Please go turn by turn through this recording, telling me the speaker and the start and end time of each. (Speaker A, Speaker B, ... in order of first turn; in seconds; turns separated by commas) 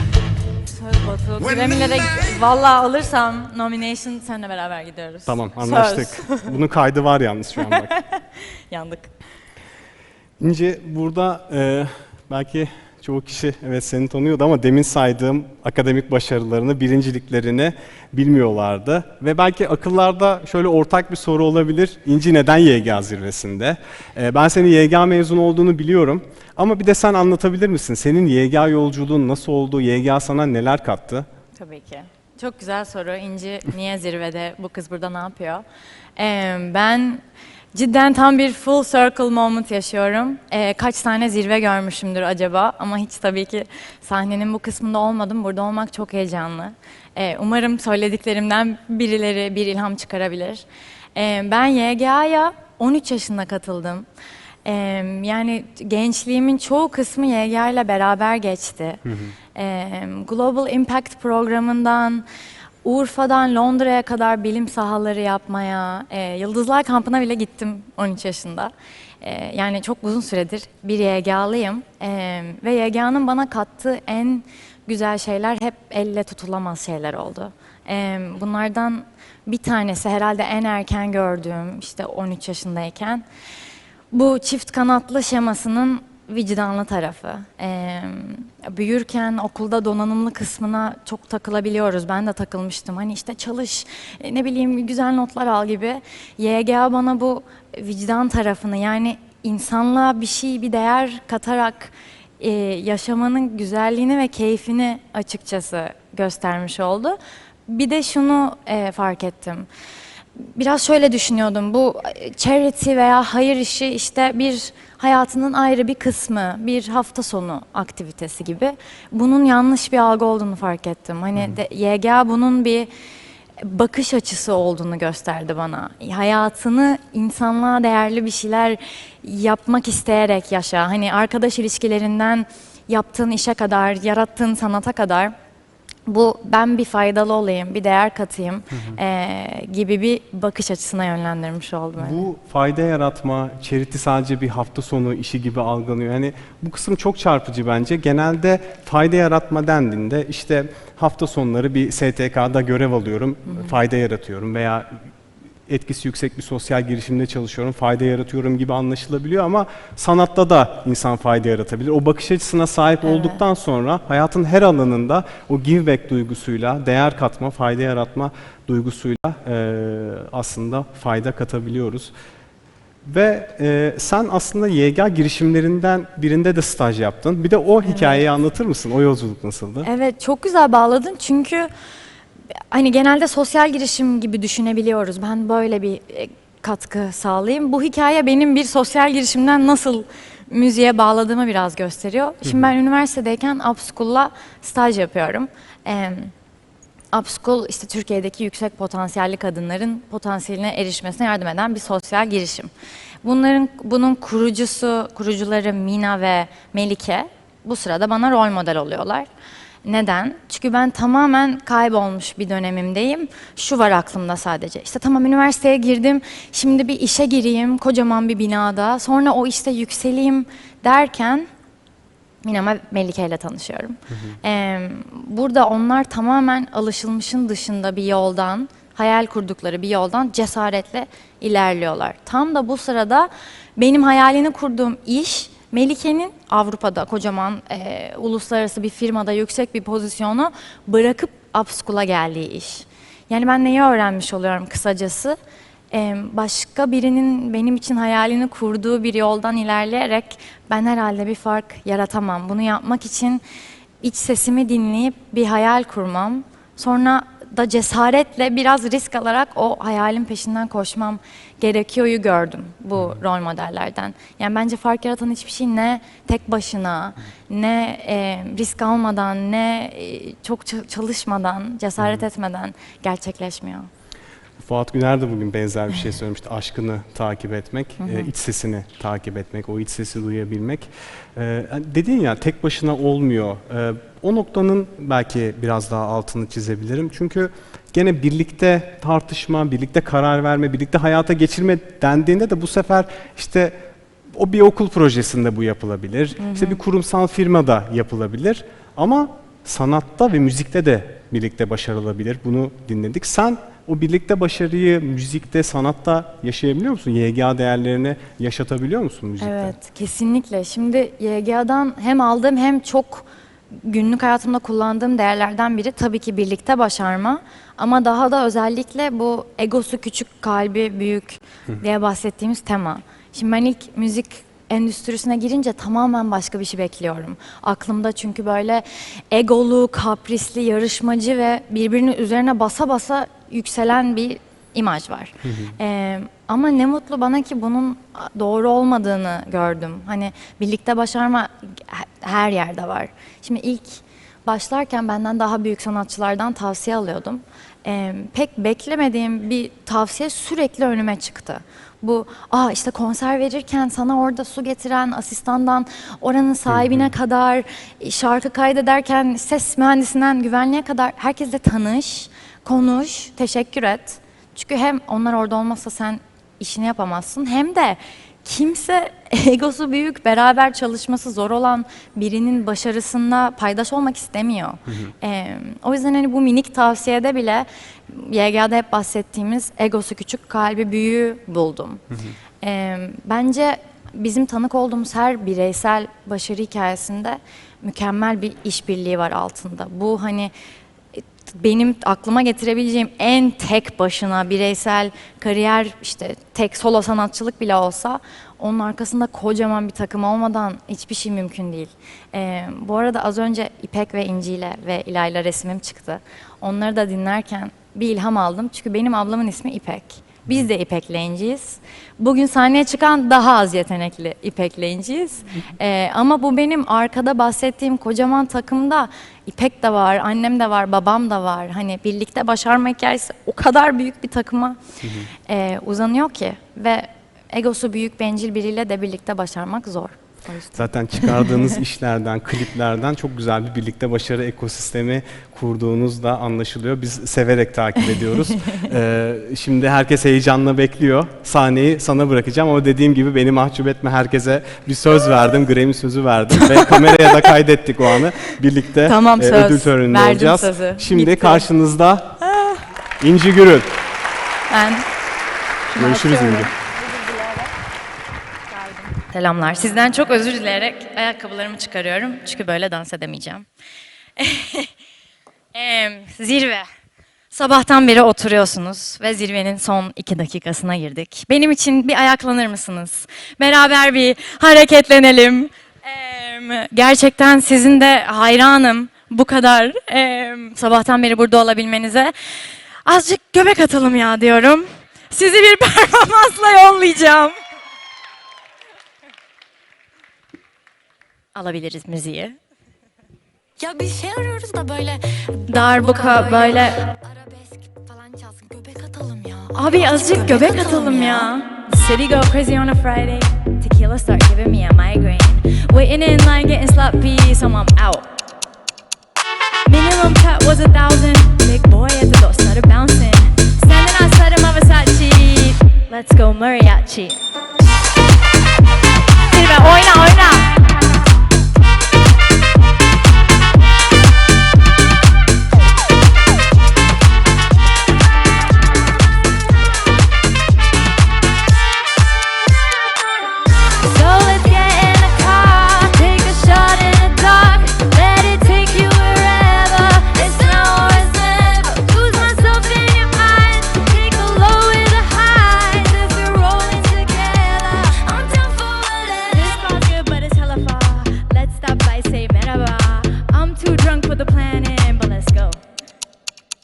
Speaker A: 0.7-6.6, Speaker B: 5.3-7.9, Speaker A: 7.6-9.1, Speaker B: 10.4-31.2, Speaker A: 31.6-35.6, Speaker A: 36.2-37.2, Speaker A: 37.7-54.0, Speaker A: 54.6-59.0, Speaker B: 59.0-59.3, Speaker A: 59.5-62.2, Speaker A: 62.8-83.2, Speaker A: 84.1-109.7, Speaker A: 110.4-122.9, Speaker A: 123.6-135.3, Speaker A: 136.1-142.3, Speaker B: 142.0-155.0, Speaker A: 153.5-153.7, Speaker B: 155.7-172.1, Speaker A: 163.0-163.4, Speaker B: 173.0-179.9, Speaker A: 177.8-178.2, Speaker A: 179.8-181.7, Speaker A: 182.7-196.3, Speaker B: 192.4-192.7, Speaker A: 197.1-202.7, Speaker A: 203.2-209.3, Speaker A: 209.8-221.5, Speaker A: 222.4-245.3, Speaker A: 245.9-253.4, Speaker A: 254.0-273.9, Speaker B: 274.6-293.7, Speaker A: 278.0-278.3, Speaker B: 294.3-309.7, Speaker A: 296.4-296.8, Speaker A: 309.4-382.0, Speaker B: 335.4-335.7, Speaker B: 356.7-357.1, Speaker A: 382.6-390.5, Speaker A: 391.2-424.8, Speaker B: 425.0-425.3, Speaker A: 425.5-431.7, Speaker B: 430.7-452.4, Speaker A: 438.1-438.7, Speaker A: 446.6-447.5, Speaker A: 449.0-451.6, Speaker B: 453.2-453.9, Speaker A: 454.7-455.0, Speaker B: 455.9-456.7, Speaker A: 455.9-457.7, Speaker A: 458.7-463.6, Speaker A: 464.4-464.9, Speaker A: 465.7-466.9, Speaker A: 467.5-482.3, Speaker A: 483.1-487.5, Speaker A: 491.5-492.6, Speaker C: 493.8-495.2, Speaker A: 493.9-494.7, Speaker A: 495.5-508.2, Speaker C: 498.9-499.7, Speaker C: 500.2-501.1, Speaker A: 509.9-517.4, Speaker A: 519.5-520.8, Speaker A: 534.0-555.8